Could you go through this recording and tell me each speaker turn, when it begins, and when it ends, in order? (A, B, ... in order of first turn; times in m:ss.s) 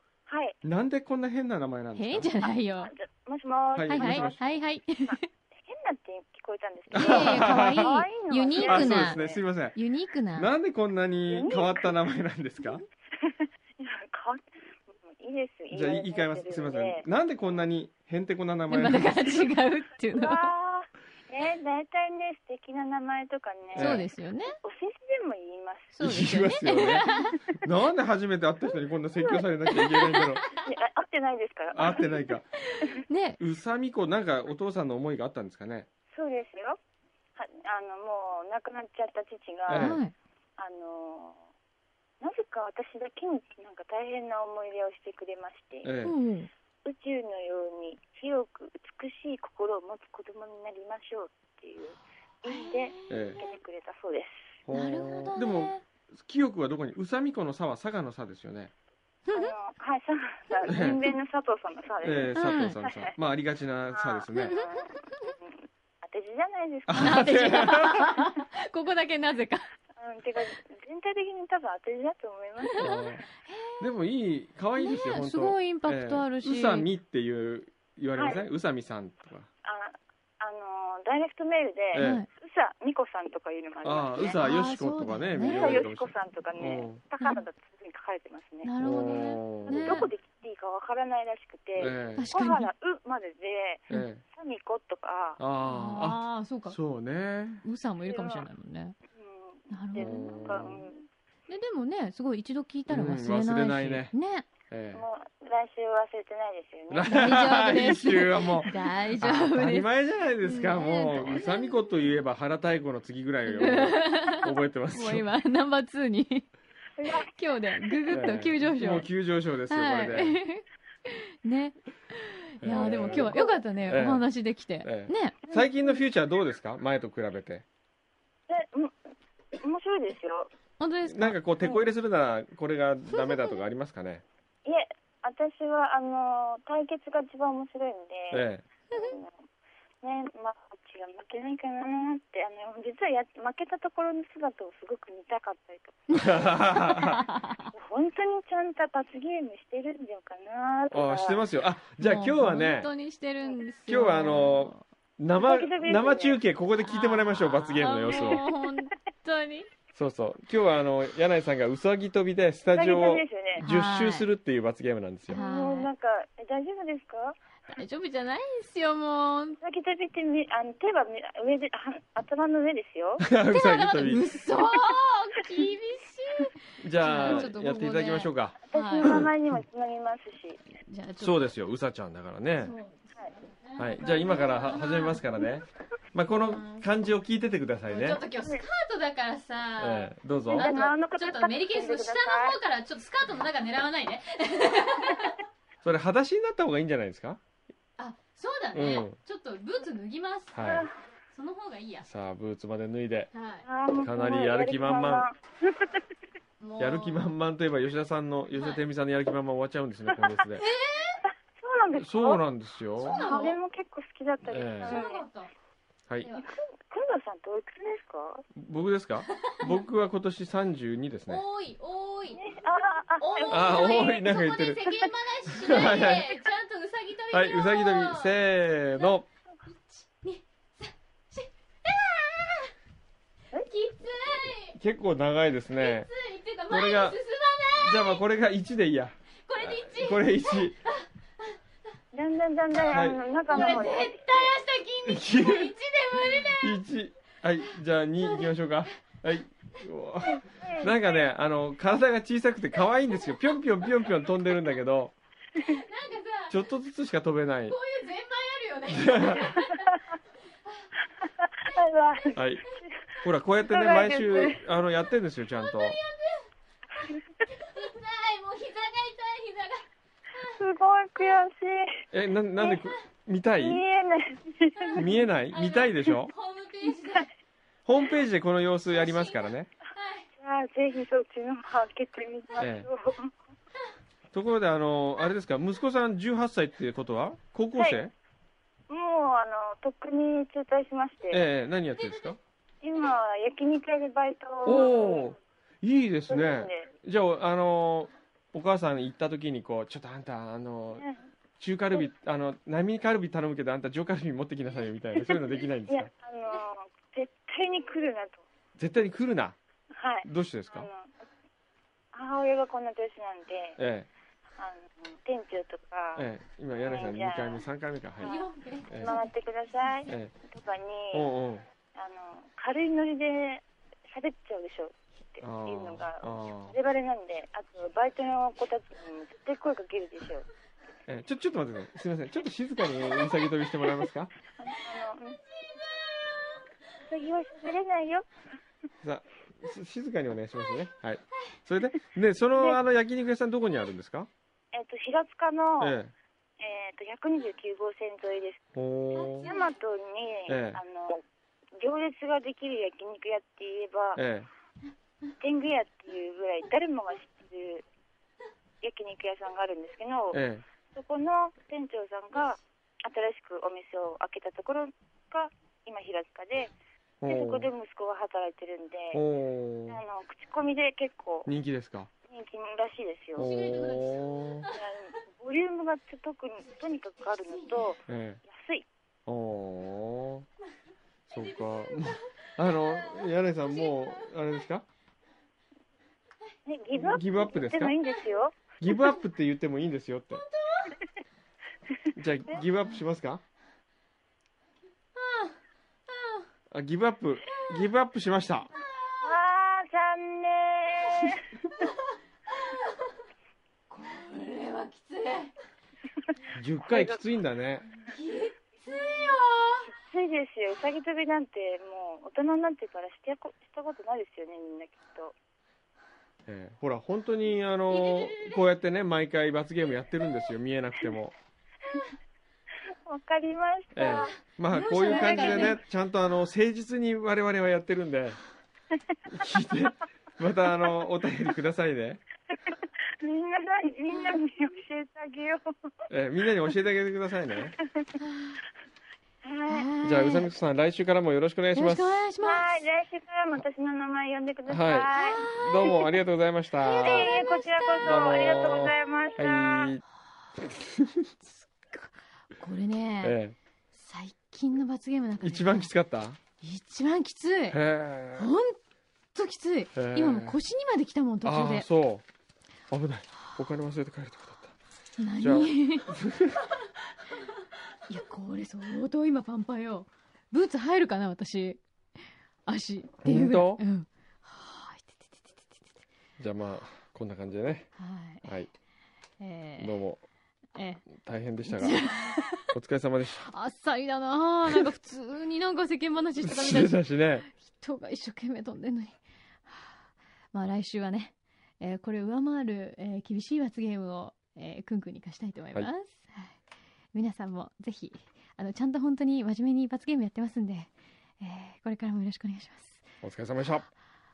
0:00.3-0:00.6 A
0:00.6-0:02.3 B
0:01.9-0:02.9 C
0:02.4-0:09.4 A
0:03.8-0:04.4 B
0:03.9-0:05.2 C
0:06.9-0:07.9 B
0:06.9-0:09.2 C
0:08.6-0:09.8 B
0:09.7-0:10.5 C
0:10.3-0:12.8 B
0:11.3-0:11.9 A
0:13.2-0:14.4 A
0:15.0-0:17.0 A
0:15.7-0:19.4 B
0:18.7-0:20.5 C
0:20.1-0:24.0 A
0:23.7-0:24.0 B
0:23.7-0:24.5 C
0:24.6-0:26.0 A
0:25.9-0:27.4 C
0:26.0-0:27.1 B
0:27.6-0:30.4 B
0:29.2-0:29.4 A
0:29.7-0:30.6 C
0:30.6-0:32.3 A
0:31.7-0:32.5 B
0:32.6-0:33.4 C
0:33.4-0:35.9 B
0:36.1-0:36.8 A
0:37.4-0:40.0 A
0:39.7-0:40.0 B
0:39.7-0:40.1 C
0:40.6-0:41.4 A
0:42.2-0:45.9 A
0:45.8-0:46.1 B
0:46.0-0:46.5 C
0:46.8-0:54.6 A
0:52.4-0:53.5 C
0:53.1-0:53.4 B
0:54.6-0:58.7 B
0:54.7-0:55.8 C
0:59.3-0:59.5 C
0:59.3-1:03.1 A
1:00.7-1:01.0 B
1:02.0-1:04.6 B
1:02.3-1:02.8 C
1:03.9-1:07.8 A
1:04.4-1:05.3 C
1:06.9-1:08.2 B
1:07.0-1:09.7 C
1:10.0-1:13.0 A
1:12.6-1:13.9 C
1:12.8-1:13.2 B
1:13.8-1:19.5 B
1:14.8-1:16.9 C
1:18.2-1:18.4 A
1:19.6-1:24.4 A
1:21.9-1:22.2 B
1:22.0-1:22.2 C
1:23.8-1:27.0 B
1:24.3-1:25.9 C
1:25.4-1:35.4 A
1:28.6-1:30.1 C
1:28.8-1:30.0 B
1:31.8-1:32.3 B
1:32.1-1:32.7 C
1:33.9-1:34.2 B
1:35.4-1:37.6 B
1:35.6-1:36.8 C
1:37.6-1:39.0 C
1:38.1-1:38.5 A
1:39.1-1:41.0 A
1:39.7-1:40.3 C
1:40.0-1:40.8 B
1:41.5-1:44.4 C
1:42.9-1:44.1 B
1:44.7-1:45.0 B
1:44.9-1:47.6 A
1:46.9-1:55.3 B
1:47.1-1:49.9 C
1:50.4-1:51.9 C
1:53.5-1:56.5 C
1:57.0-1:57.3 A
1:57.2-1:59.1 C
1:58.1-2:00.4 B
1:59.7-2:05.6 C
2:02.6-2:07.6 B
2:02.7-2:03.6 A
2:08.5-2:08.9 A
2:09.6-2:10.5 A
2:10.8-2:11.8 C
2:11.0-2:14.2 B
2:13.1-2:13.4 C
2:14.6-2:19.4 A
2:18.3-2:18.7 B
2:18.9-2:19.2 C
2:20.0-2:26.3 A
2:26.1-2:27.3 B
2:26.6-2:27.7 C
2:27.7-2:31.4 A
2:30.9-2:32.9 B
2:32.0-2:34.8 C
2:33.8-2:38.4 B
2:35.4-2:36.4 A
2:36.8-2:39.7 C
2:38.2-2:38.5 A
2:39.9-2:45.4 B
2:42.7-2:43.7 A
2:43.6-2:44.3 C
2:45.3-2:45.9 C
2:45.3-2:47.4 A
2:47.7-2:49.6 C
2:49.6-2:53.2 A
2:53.2-2:54.4 B
2:53.5-2:59.2 C
2:56.8-2:59.2 B
2:57.2-2:57.5 A
2:58.7-3:00.6 A
3:00.9-3:01.4 C
3:01.2-3:02.7 B
3:02.6-3:05.4 C
3:03.8-3:08.2 B
3:06.3-3:06.8 C
3:07.8-3:15.4 C
3:09.8-3:10.7 B
3:10.4-3:12.6 A
3:15.8-3:17.4 B
3:18.0-3:22.1 C
3:18.7-3:19.2 B
3:20.5-3:20.9 B
3:20.6-3:20.9 A
3:22.0-3:23.3 B
3:23.3-3:23.6 C
3:23.6-3:26.0 A
3:23.9-3:25.3 B
3:26.6-3:27.3 C
3:26.8-3:30.6 B
3:28.5-3:28.8 C
3:30.5-3:31.2 C
3:31.5-3:32.4 A
3:31.9-3:33.2 B
3:33.0-3:33.5 C
3:33.0-3:35.3 A
3:34.5-3:35.0 B
3:34.8-3:35.5 C
3:36.2-3:36.5 C
3:36.3-3:38.4 A
3:38.5-3:41.4 B
3:39.4-3:39.8 C
3:41.3-3:42.5 C
3:42.4-3:43.9 A
3:43.2-3:48.4 C
3:43.5-3:44.9 B
3:45.5-3:46.3 B
3:47.3-3:49.3 B
3:48.9-3:52.7 C
3:53.5-3:54.8 C
3:54.7-3:56.1 B
3:55.7-3:58.2 C
3:56.7-3:57.2 B
3:57.7-4:00.8 B
3:59.5-4:01.0 C
4:02.1-4:04.5 A
4:02.9-4:03.2 B
4:03.5-4:06.8 C
4:05.0-4:15.1 B
4:08.2-4:08.5 C
4:10.2-4:11.0 A
4:15.6-4:16.6 C
4:16.5-4:17.8 B
4:17.7-4:20.0 C
4:18.9-4:19.5 B
4:21.2-4:22.3 A
4:22.3-4:22.6 B
4:23.2-4:26.0 B
4:23.7-4:24.6 A
4:25.6-4:26.4 C
4:27.4-4:29.8 C
4:30.4-4:32.0 A
4:32.1-4:33.8 B
4:33.6-4:35.0 A
4:34.8-4:37.3 C
4:35.0-4:36.3 B
4:37.8-4:39.7 B
4:38.9-4:40.2 C
4:40.4-4:43.3 A
4:42.6-4:42.9 B
4:44.3-4:48.1 B
4:47.8-4:48.0 A
4:48.9-4:51.4 A
4:51.3-4:52.4 B
4:52.8-4:55.3 A
4:54.6-5:01.0 B
4:56.3-4:56.9 A
5:01.6-5:06.1 B
5:05.1-5:08.4 A
5:08.8-5:09.6 B
5:09.9-5:11.2 A
5:10.2-5:10.9 B
5:12.1-5:13.8 A
5:13.8-5:14.1 B
5:14.6-5:16.3 A
5:16.2-5:19.2 B
5:16.8-5:17.6 A
5:18.2-5:19.2 C
5:18.9-5:21.3 A
5:20.0-5:20.3 B
5:21.1-5:21.6 B
5:21.9-5:30.5 A
5:25.4-5:26.8 B
5:31.1-5:34.3 B
5:34.6-5:35.4 A
5:35.9-5:36.4 C
5:37.0-5:38.2 A
5:39.0-5:44.3 B
5:44.7-5:46.0 A
5:45.8-5:46.1 B
5:46.6-5:48.6 A
5:48.7-5:49.5 B
5:49.4-5:51.2 A
5:50.5-5:50.8 B
5:51.8-5:54.2 A
5:54.2-5:54.5 B
5:55.4-5:57.8 A
5:58.8-6:06.7 A
6:00.3-6:00.6 B
6:07.2-6:07.7 B
6:07.2-6:09.2 A
6:09.1-6:10.0 B
6:09.9-6:11.5 A
6:11.4-6:12.1 B
6:12.3-6:13.5 A
6:13.4-6:14.7 B
6:13.4-6:14.8 C
6:14.7-6:18.8 A
6:18.1-6:18.4 B
6:19.3-6:20.4 B
6:21.3-6:24.8 B
6:21.3-6:22.1 C
6:26.6-6:28.7 A
6:26.9-6:28.0 B
6:28.8-6:30.4 B
6:30.3-6:31.0 C
6:32.1-6:33.4 B
6:35.1-6:35.5 C
6:36.1-6:36.4 C
6:36.7-6:38.7 B
6:39.0-6:39.3 C
6:39.2-6:41.4 A
6:43.9-6:45.5 C
6:46.5-6:47.8 B
6:46.9-6:47.2 A
6:48.0-6:49.9 C
6:49.9-6:55.4 A
6:56.5-7:01.4 B
6:57.9-6:58.6 C
7:03.1-7:05.8 A
7:03.9-7:08.4 B
7:04.0-7:05.8 C
7:09.3-7:12.2 B
7:12.7-7:15.6 A
7:16.1-7:17.7 B
7:18.2-7:18.6 C
7:19.4-7:19.9 A
7:19.7-7:20.5 C
7:20.0-7:22.2 B
7:21.7-7:22.8 C
7:22.4-7:25.9 A
7:24.7-7:27.3 B
7:25.1-7:26.2 C
7:26.8-7:28.1 C
7:26.8-7:29.9 A
7:28.0-7:30.0 B
7:31.4-7:33.4 C
7:33.2-7:33.6 B
7:33.9-7:35.9 C
7:35.4-7:36.4 B
7:36.6-7:37.8 C
7:37.7-7:38.5 B
7:38.3-7:38.8 C
7:39.3-7:41.9 C
7:40.0-7:40.6 B
7:41.4-7:42.2 B
7:42.9-7:44.7 B
7:45.2-7:46.2 C
7:45.4-7:46.6 B
7:48.1-7:51.8 C
7:52.6-7:55.8 C
7:53.2-7:53.8 B
7:56.4-7:57.9 B
7:58.0-7:58.5 C
7:58.4-7:58.7 B
7:59.4-8:00.0 C
7:59.8-8:00.2 B
8:00.7-8:01.1 C
8:01.1-8:03.4 B
8:01.6-8:02.6 C
8:03.3-8:16.6 C
8:06.4-8:07.5 B
8:17.1-8:23.0 C
8:23.2-8:23.9 B